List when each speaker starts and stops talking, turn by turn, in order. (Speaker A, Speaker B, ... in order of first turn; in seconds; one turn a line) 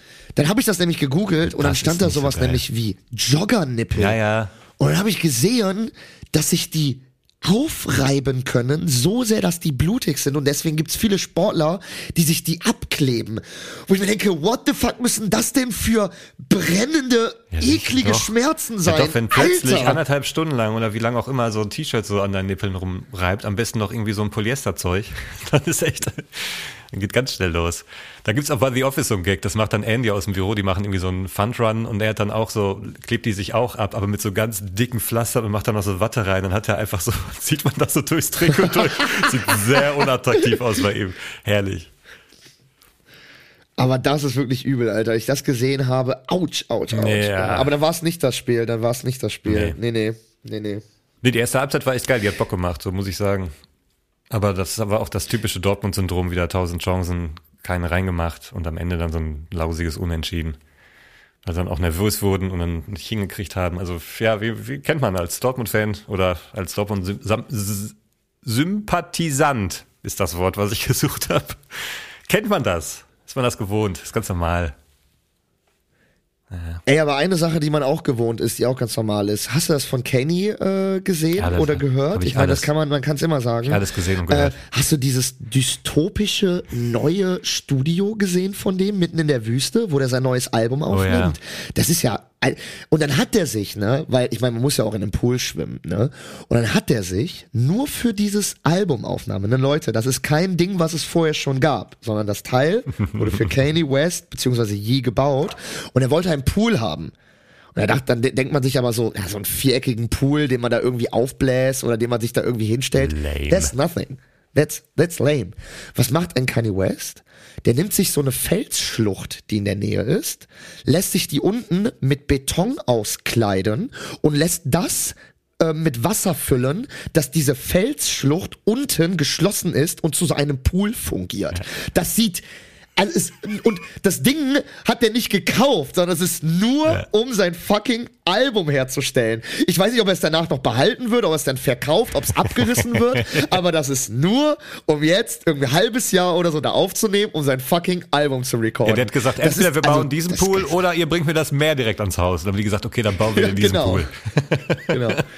Speaker A: 0.4-4.2
Speaker B: 1.4-2.6
Speaker B: 4.0-4.5
Speaker A: 4.8-20.0
Speaker B: 17.5-41.9
Speaker A: 43.8-50.8
Speaker B: 46.9-47.7
Speaker B: 49.5-49.8
Speaker B: 51.2-53.5
Speaker B: 54.3-60.6
Speaker B: 61.4-74.8
Speaker B: 76.5-76.8
Speaker A: 76.9-107.1
Speaker B: 81.4-82.7
Speaker B: 83.6-84.6
Speaker B: 90.9-91.4
Speaker A: 107.8-132.4
Speaker B: 113.0-113.7
Speaker A: 133.0-150.7
Speaker B: 142.6-143.5
Speaker B: 148.8-155.2
Speaker A: 153.3-154.1
Speaker A: 154.9-155.2